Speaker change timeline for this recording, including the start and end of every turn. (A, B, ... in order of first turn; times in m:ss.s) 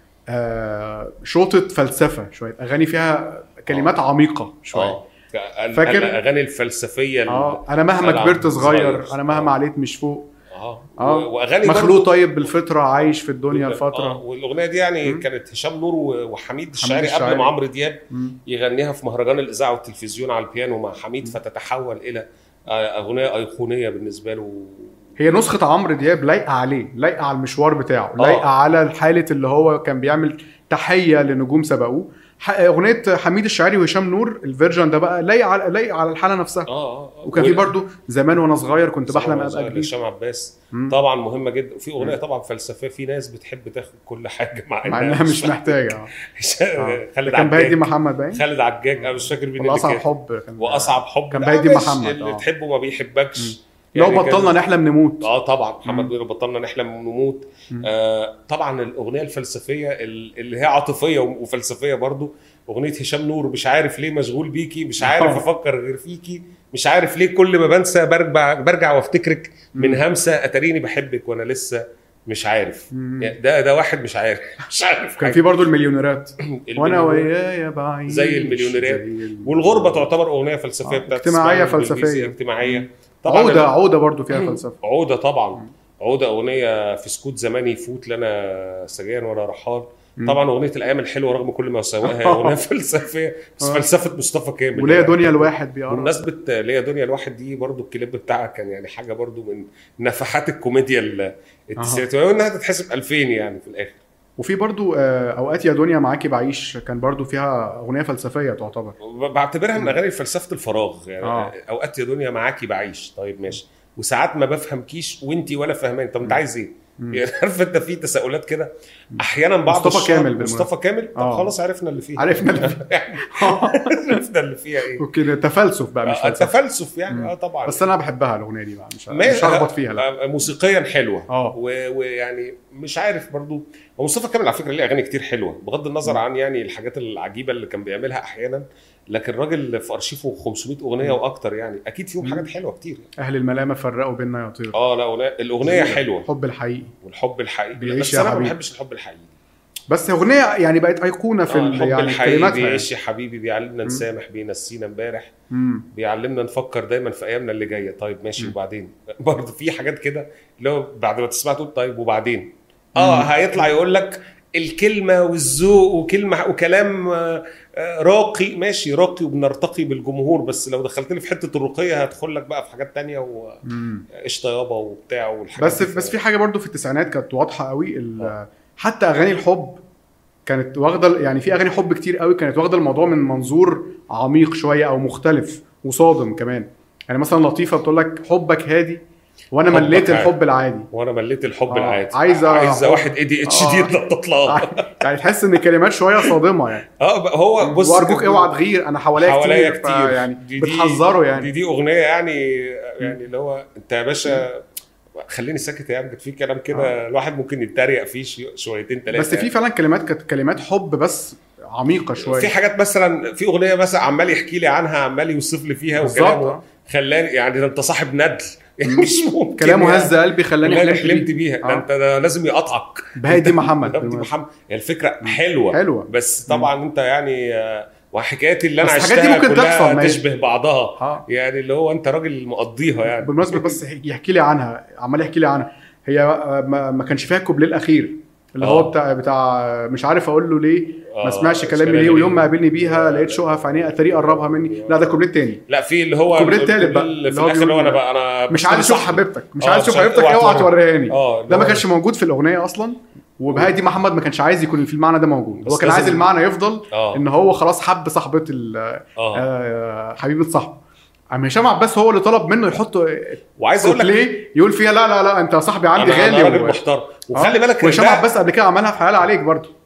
0:00.3-0:05.0 A
0:03.7-0:03.9 B
0:04.7-0:09.5 B
0:05.7-0:06.2 A
0:07.3-0:10.3 A
0:10.5-0:12.5 B
0:11.0-0:14.2 A
0:13.5-0:25.0 B
0:16.8-0:17.5 A
0:18.1-0:18.4 A
0:25.2-0:36.7 A
0:28.2-0:28.4 B
0:36.7-0:37.7 B
0:37.2-0:39.9 A
0:39.1-0:50.0 B
0:44.8-0:46.1 A
0:46.8-0:48.4 A
0:49.0-0:52.4 A
0:50.6-0:54.6 B
0:53.4-0:55.3 A
0:55.2-1:15.4 B
0:55.8-0:56.1 A
1:05.0-1:05.4 A
1:09.7-1:10.0 A
1:12.9-1:13.3 A
1:15.2-1:20.1 A
1:16.4-1:17.3 B
1:18.1-1:23.7 B
1:20.8-1:24.7 A
1:24.3-1:44.0 B
1:32.0-1:32.6 A
1:34.8-1:36.2 A
1:41.8-1:42.0 A
1:44.4-1:49.0 A
1:49.0-2:05.0 B
1:51.2-1:51.5 A
1:59.1-2:01.5 A
2:02.2-2:04.2 A
2:05.0-2:06.5 A
2:06.0-2:07.8 B
2:07.1-2:10.0 A
2:09.1-2:23.1 B
2:11.3-2:11.6 A
2:22.2-2:22.5 A
2:23.2-2:24.8 A
2:24.7-2:26.3 B
2:25.6-2:26.9 A
2:27.0-2:29.3 B
2:27.8-2:28.5 A
2:29.9-2:32.9 A
2:31.5-2:35.3 B
2:35.5-2:35.8 A
2:35.9-2:53.6 B
2:43.0-2:43.7 A
2:53.6-2:54.0 A
2:54.2-2:56.2 B
2:55.6-2:59.8 A
3:00.4-3:09.0 A
3:09.5-3:10.9 A
3:09.7-3:10.3 B
3:10.9-3:15.3 B
3:11.7-3:13.9 A
3:14.5-3:16.8 A
3:17.0-3:18.5 B
3:17.6-3:21.5 A
3:19.2-3:24.6 B
3:25.2-3:29.5 B
3:29.1-3:32.5 A
3:32.2-3:53.8 B
3:36.0-3:36.6 A
3:38.8-3:41.8 A
3:43.2-3:44.3 A
3:45.2-3:46.7 A
3:48.8-3:50.2 A
3:51.0-3:51.2 A
3:53.0-4:05.6 A
3:58.6-3:58.9 B
4:01.1-4:11.8 B
4:06.3-4:20.8 A
4:15.6-4:16.2 B
4:16.9-4:17.2 B
4:19.2-4:19.4 B
4:21.3-4:26.8 A
4:23.6-4:24.2 B
4:26.0-4:28.2 B
4:27.3-4:29.7 A